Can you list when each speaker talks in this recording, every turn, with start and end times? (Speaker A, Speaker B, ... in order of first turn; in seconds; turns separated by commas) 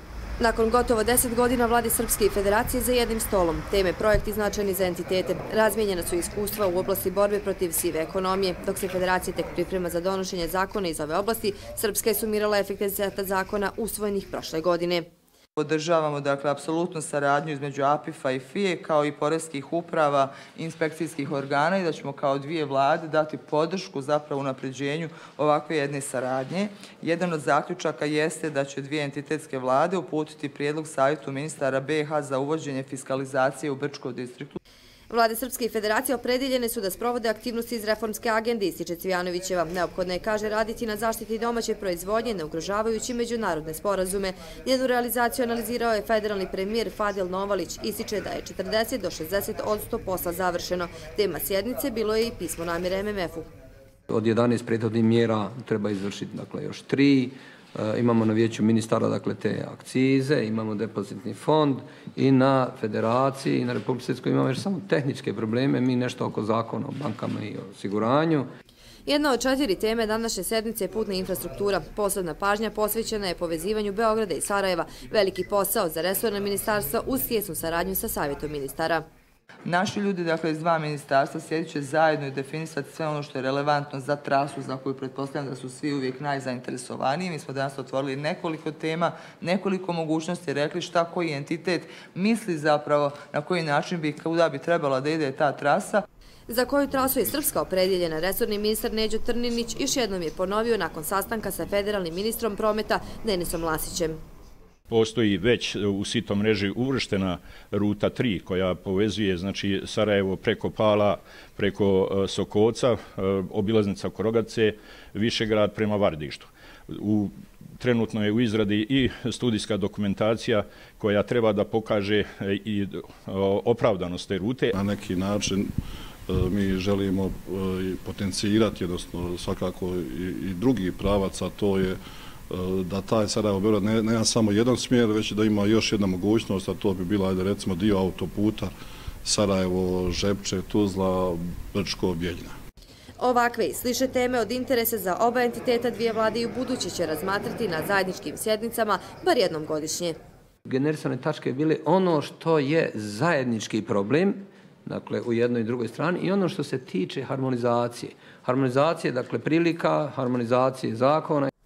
Speaker A: 0.4-15.1, Speaker B: 15.6-34.6, Speaker A: 35.1-53.5, Speaker C: 54.1-68.5, Speaker A: 69.1-79.0, Speaker B: 79.7-96.0, Speaker A: 96.5-104.2, Speaker D: 104.9-124.7, Speaker E: 124.7-125.7, Speaker E: 126.3-132.0, Speaker E: 132.5-138.7, Speaker E: 139.2-142.5, Speaker A: 143.2-150.2, Speaker C: 150.7-161.5